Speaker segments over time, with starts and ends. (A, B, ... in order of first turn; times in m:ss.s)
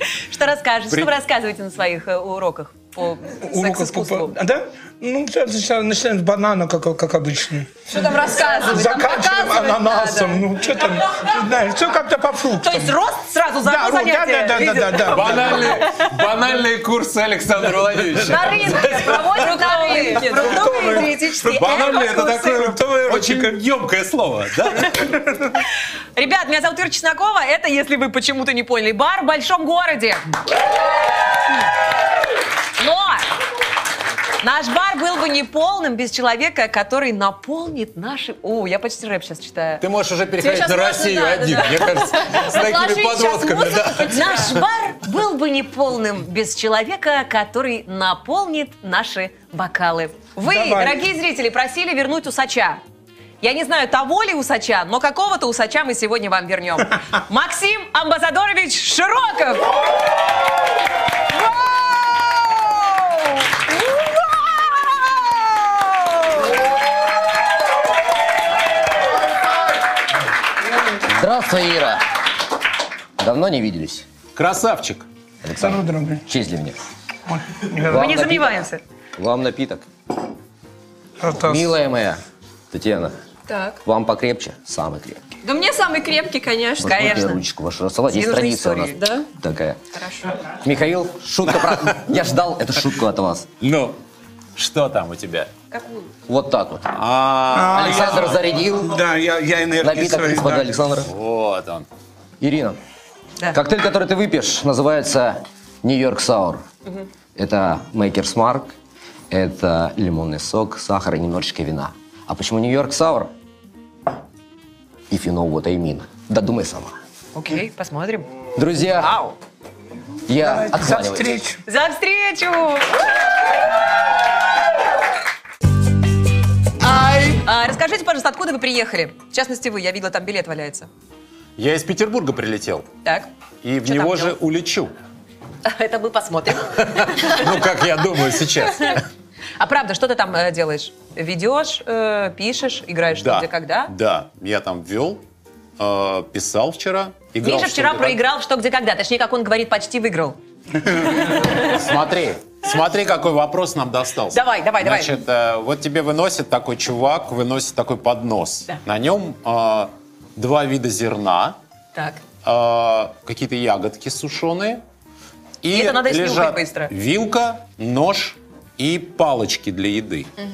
0:00.1-0:04.3 A
0:03.4-0:07.7 B
0:07.9-0:10.5 C
0:08.3-0:08.7 A
0:08.6-0:13.0 B
0:12.6-0:16.1 A
0:13.6-0:15.8 B
0:15.1-0:18.8 D
0:18.2-0:22.5 A
0:18.3-0:20.8 C
0:20.1-0:23.6 B
0:21.5-0:25.1 D
0:24.9-0:25.5 B
0:26.1-0:30.2 A
0:32.8-0:33.3 A
0:34.4-0:39.8 A
0:39.8-0:44.6 D
0:40.4-0:44.6 C
0:40.5-0:42.5 A
0:44.0-0:52.8 A
0:50.4-0:51.0 B
0:53.4-0:59.8 A
1:01.3-1:06.5 A
1:10.9-1:12.0 E
1:13.2-1:14.0 E
1:14.3-1:15.1 D
1:15.4-1:16.8 E
1:15.6-1:16.3 B
1:17.3-1:18.1 B
1:17.8-1:18.6 E
1:17.9-1:18.8 A
1:19.2-1:19.9 E
1:21.2-1:21.7 B
1:21.4-1:23.1 E
1:23.5-1:23.8 C
1:23.8-1:25.2 E
1:25.4-1:27.4 C
1:26.8-1:29.8 E
1:26.9-1:27.4 A
1:28.1-1:29.0 A
1:28.9-1:29.3 C
1:29.9-1:30.3 C
1:30.4-1:33.5 E
1:33.6-1:34.0 D
1:34.6-1:35.5 D
1:35.7-1:36.1 A
1:36.3-1:36.9 E
1:36.9-1:38.4 D
1:37.5-1:40.7 B
1:37.7-1:39.0 E
1:39.8-1:41.1 E
1:41.0-1:41.9 D
1:42.4-1:42.8 E
1:43.5-1:46.6 E
1:47.4-1:48.7 E
1:49.3-1:53.3 E
1:55.1-1:56.9 E
1:57.3-1:58.3 A
1:58.6-1:59.1 E
1:59.0-1:59.4 A
2:00.3-2:01.3 E
2:00.4-2:01.6 B
2:01.7-2:03.0 A
2:06.8-2:10.9 A
2:11.6-2:12.9 D
2:13.0-2:13.3 A
2:13.6-2:14.9 D
2:13.8-2:14.4 A
2:15.6-2:17.5 A
2:16.9-2:19.0 D
2:18.7-2:19.0 A
2:19.6-2:23.9 A
2:23.2-2:25.2 D
2:25.8-2:28.2 D
2:27.4-2:31.7 A
2:31.1-2:41.6 D
2:34.3-2:35.2 A
2:41.9-2:42.2 A
2:42.4-2:44.8 D
2:45.6-2:50.3 D
2:45.7-2:46.9 A